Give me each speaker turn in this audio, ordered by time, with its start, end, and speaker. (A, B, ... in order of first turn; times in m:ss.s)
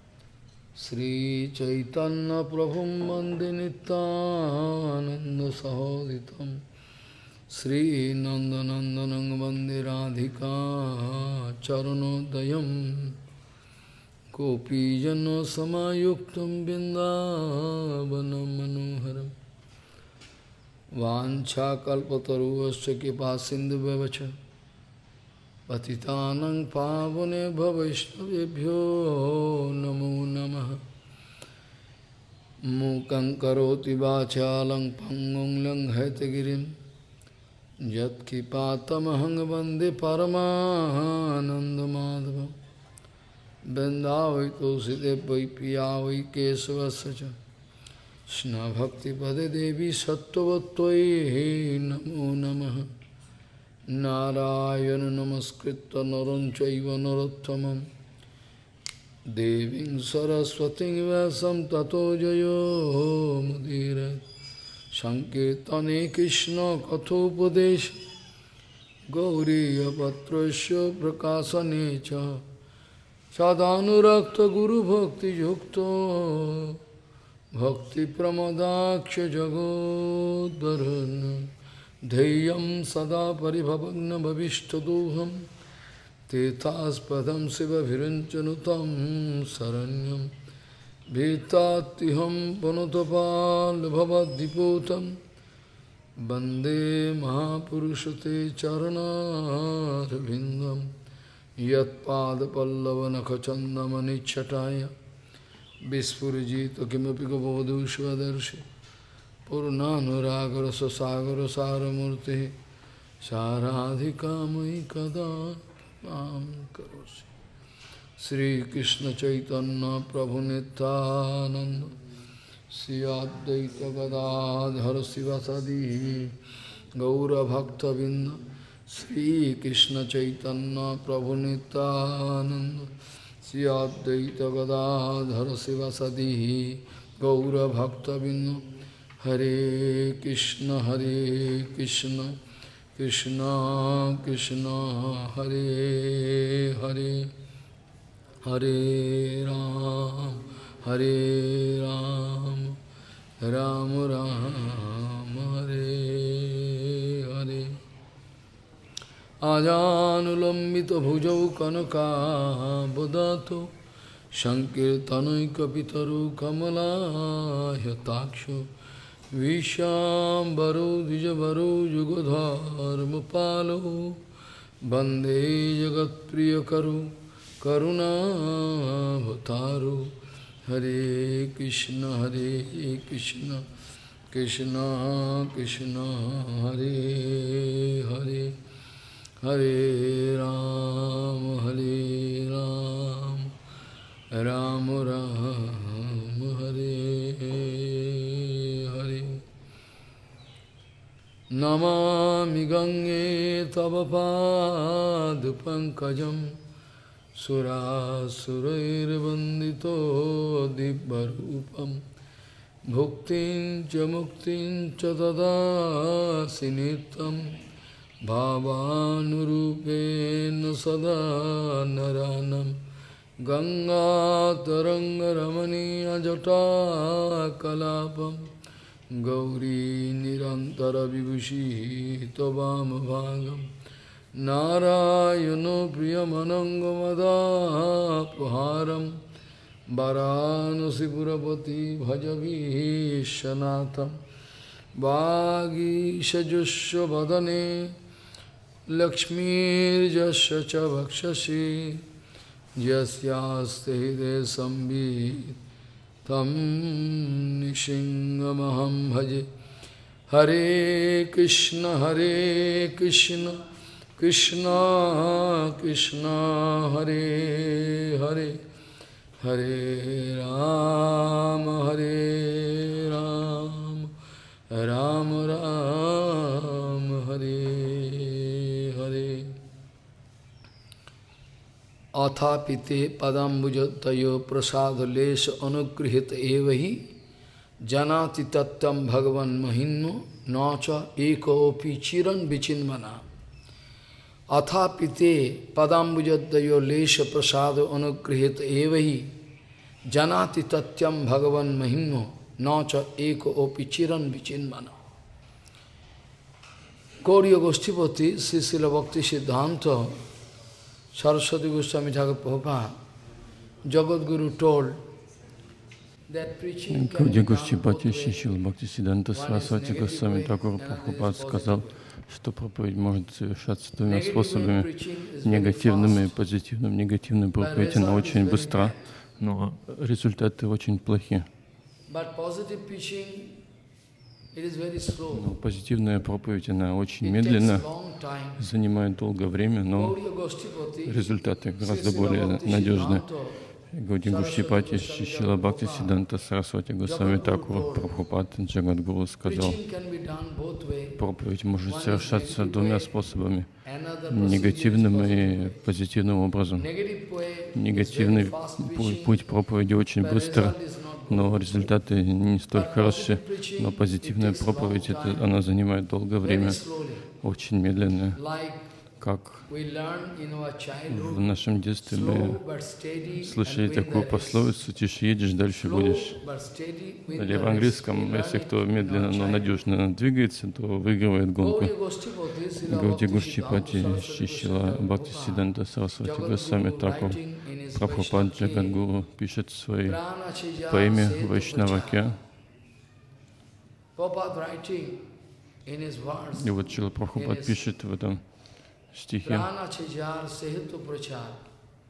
0:00.8-0:06.6 A
0:07.5-0:13.2 A
0:14.3-0:19.3 A
0:21.0-0:24.3 A
0:25.7-0:30.8 A
0:32.6-0:36.8 A
0:37.8-0:42.6 A
0:43.6-0:47.4 A
0:48.3-0:52.9 A
0:53.9-0:57.9 A
0:59.2-1:04.2 A
1:04.9-1:08.0 A
1:09.1-1:12.4 A
1:13.3-1:16.8 A
1:17.5-1:21.5 A
1:22.0-1:25.4 A
1:26.3-1:30.3 A
1:31.1-1:35.2 A
1:36.2-1:40.9 A
1:41.6-1:44.9 A
1:45.8-1:48.6 A
1:49.5-1:52.6 A
1:53.2-1:57.3 A
1:58.2-2:01.9 A
2:02.7-2:06.4 A
2:07.0-2:12.9 A
2:13.4-2:18.7 A
2:19.2-2:22.4 A
2:23.0-2:27.3 A
2:28.4-2:32.8 A
2:33.4-2:37.8 A
2:39.4-2:43.7 A
2:44.3-2:48.7 A
2:49.3-2:54.2 A
2:54.8-3:03.6 A
3:04.3-3:08.6 A
3:09.4-3:13.5 A
3:14.3-3:19.4 A
3:21.5-3:26.6 A
3:27.3-3:32.0 A
3:32.9-3:37.6 A
3:38.2-3:42.8 A
3:43.4-3:48.5 A
3:49.1-3:53.7 A
3:54.3-3:59.2 A
3:59.9-4:04.2 A
4:05.0-4:08.0 A
4:08.9-4:12.0 A
4:12.8-4:15.6 A
4:16.2-4:19.5 A
4:20.3-4:23.6 A
4:24.2-4:28.6 A
4:29.4-4:34.1 A
4:34.7-4:39.6 A
4:42.1-4:47.1 A
4:47.8-4:53.2 A
4:54.5-4:59.3 A
5:00.1-5:05.0 A
5:07.2-5:10.2 A
5:11.1-5:12.9 A
5:13.9-5:15.0 A
5:16.3-5:18.5 A
5:16.9-5:24.9 B
5:19.3-5:22.0 A
5:24.0-5:26.4 A
5:25.4-5:31.5 B
5:27.6-5:29.1 A
5:32.1-5:33.6 A
5:34.5-5:35.5 A
5:35.3-5:37.8 B
5:37.2-5:38.6 A
5:38.6-5:40.2 B
5:39.9-5:43.6 A
5:41.0-5:43.2 B
5:43.9-5:49.8 B
5:44.2-5:46.2 A
5:47.0-5:48.1 A
5:49.4-5:51.2 A
5:51.2-5:53.7 B
5:51.8-5:53.1 A
5:53.8-5:55.8 A
5:54.3-5:56.9 B
5:56.8-5:59.4 A
5:57.7-6:00.8 B
6:00.2-6:01.7 A
6:01.3-6:06.8 B
6:02.7-6:05.5 A
6:06.4-6:07.3 A
6:07.4-6:08.4 B
6:08.3-6:08.8 A
6:09.2-6:09.7 B
6:09.7-6:14.6 A
6:11.1-6:12.6 B
6:13.4-6:16.4 B
6:15.8-6:19.7 A
6:17.3-6:21.9 B
6:21.6-6:25.6 A
6:22.8-6:27.4 B
6:26.2-6:29.0 A
6:27.9-6:30.2 B
6:30.0-6:32.2 A
6:30.9-6:32.4 B
6:34.2-6:35.2 A
6:35.8-6:36.7 A
6:36.6-6:38.4 B
6:37.3-6:37.8 A
6:39.1-6:39.7 B
6:39.4-6:41.6 A